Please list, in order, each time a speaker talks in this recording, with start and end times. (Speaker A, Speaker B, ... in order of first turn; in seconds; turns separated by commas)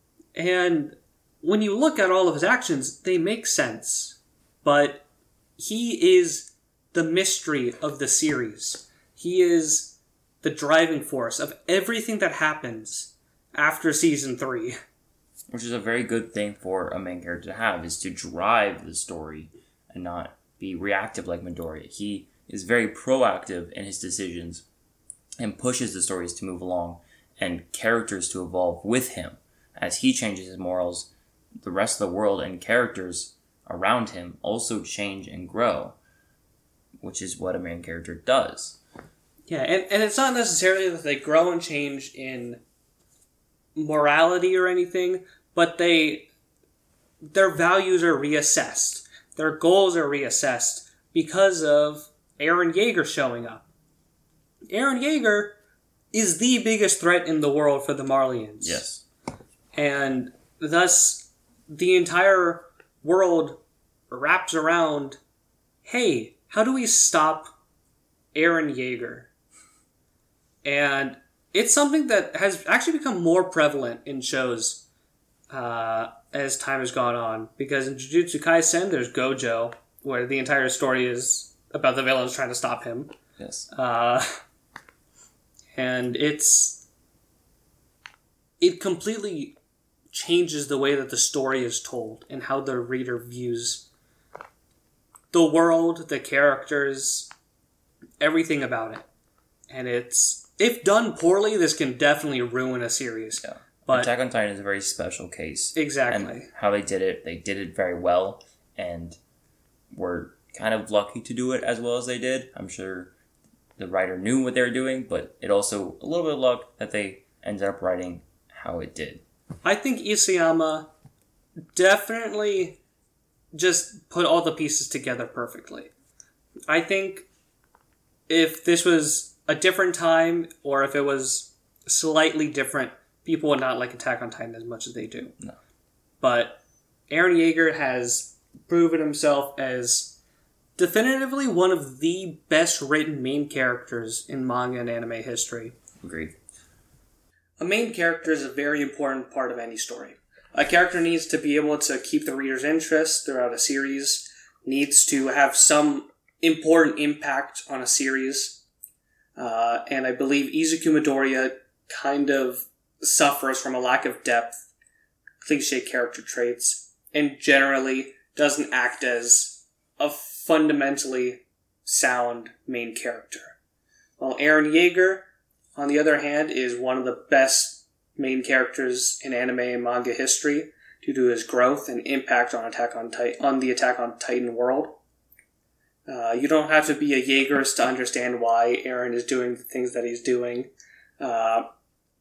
Speaker A: 0.3-5.0, Speaker A: 5.6-14.8, Speaker B: 15.5-24.6, Speaker B: 25.4-31.1, Speaker B: 31.6-36.0, Speaker B: 37.0-38.8, Speaker A: 39.5-42.6, Speaker A: 43.8-46.3, Speaker A: 47.3-53.7, Speaker A: 54.7-55.5, Speaker A: 56.1-58.8, Speaker B: 58.6-59.0, Speaker A: 59.7-65.2, Speaker A: 65.8-67.5, Speaker A: 68.3-69.3, Speaker A: 70.6-74.8, Speaker A: 75.5-83.1, Speaker B: 83.4-83.7, Speaker A: 83.7-84.4, Speaker A: 85.7-86.8, Speaker A: 88.6-89.6, Speaker A: 90.1-93.9, Speaker A: 95.3-97.3, Speaker A: 98.2-99.1, Speaker A: 99.7-104.1, Speaker B: 103.4-109.2, Speaker A: 105.8-106.5, Speaker B: 109.9-113.1, Speaker B: 113.8-119.2, Speaker A: 119.6-120.9, Speaker A: 121.7-122.8, Speaker A: 123.5-125.9, Speaker A: 126.7-127.3, Speaker A: 128.3-135.3, Speaker A: 136.2-140.2, Speaker A: 140.8-145.8, Speaker B: 146.0-146.4, Speaker A: 147.6-158.6, Speaker A: 159.4-164.7, Speaker A: 165.4-173.6, Speaker A: 174.2-185.0, Speaker A: 186.1-191.7